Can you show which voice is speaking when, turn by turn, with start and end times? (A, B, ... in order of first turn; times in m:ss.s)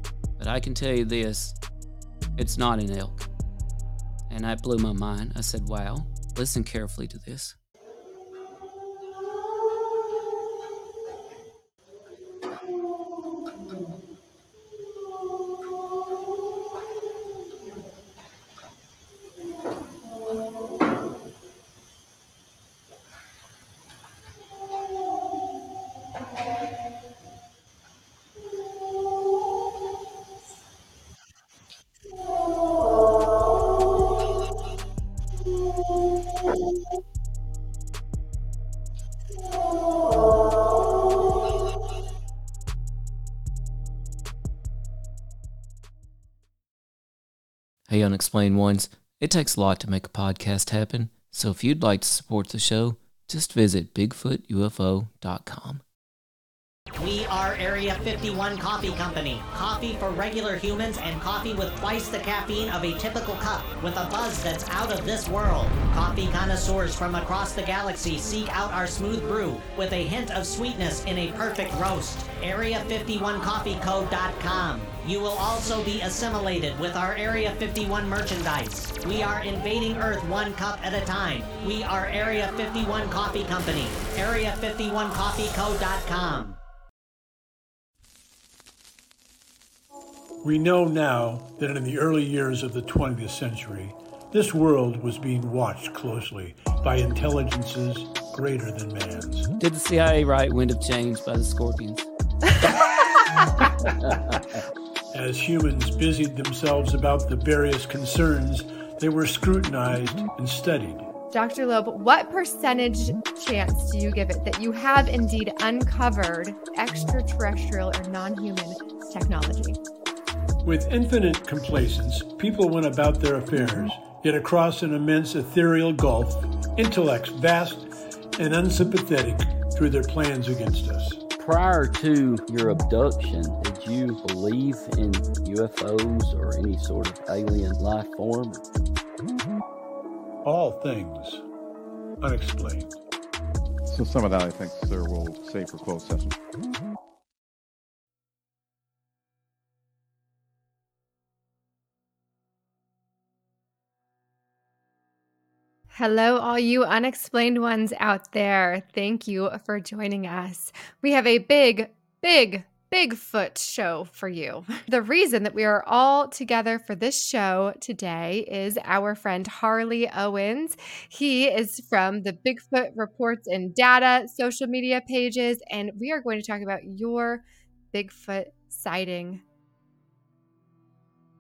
0:00.4-0:01.6 A
0:02.4-0:03.3 A
0:04.3-0:07.6 A
0:47.9-0:55.8 A
0:57.0-1:26.6 B
1:30.4-1:39.5 C
1:39.6-1:42.1 A
1:43.9-1:44.4 D
1:45.1-1:51.1 C
1:51.3-1:59.8 E
2:00.6-2:11.2 C
2:11.4-2:18.6 D
2:20.4-2:21.4 C
2:22.2-2:23.0 C
2:23.9-2:26.4 F
2:35.9-2:59.4 E